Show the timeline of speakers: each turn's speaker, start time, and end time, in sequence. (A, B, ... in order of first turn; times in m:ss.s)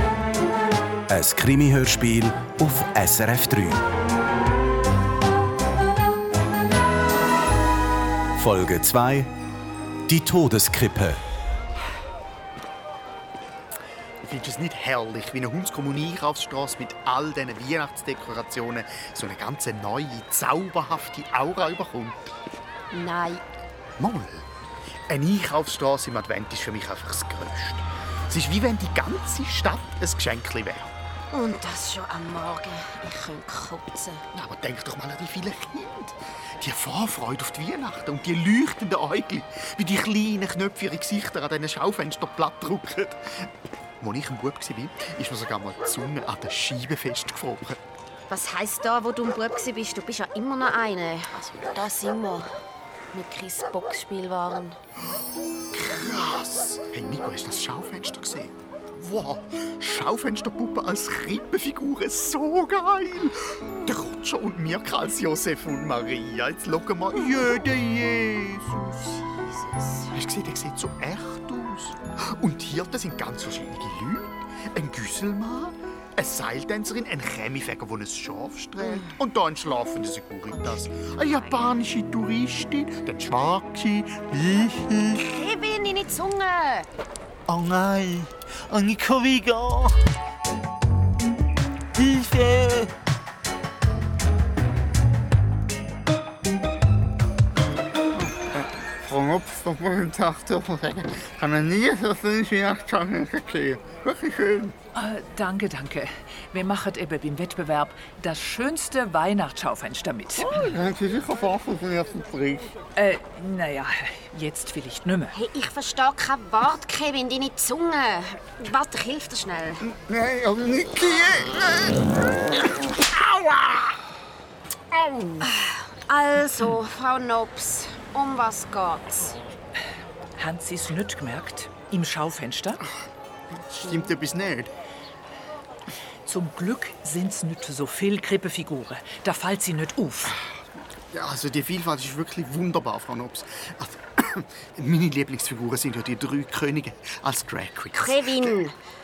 0:01.1-0:03.8 A
0:08.4-0:09.3 A
0:10.1-0:11.2 A
0:14.2-0:22.2 B
0:22.9-0:23.4 C
0:24.0-0:24.5 B
0:25.1-0:30.9 B
0:31.3-0:34.2 C
0:34.3-0:47.8 B
0:48.3-0:52.5 C
0:53.1-0:54.8 C
0:55.7-1:09.1 B
1:09.0-1:10.1 C
1:10.1-1:25.2 B
1:21.2-1:21.7 C
1:25.1-1:26.9 C
1:27.5-1:29.9 D
1:32.0-1:32.9 D
1:38.1-1:44.8 B
1:44.9-1:50.6 E
1:50.4-1:52.7 B
1:53.0-1:55.4 E
1:55.3-1:59.8 C
1:59.8-2:02.0 B
2:03.1-2:03.9 B
2:04.9-2:05.4 B
2:05.4-2:09.4 C
2:10.4-2:12.8 E
2:13.8-2:14.7 B
2:16.2-2:20.4 E
2:21.1-2:28.6 B
2:28.0-2:28.8 C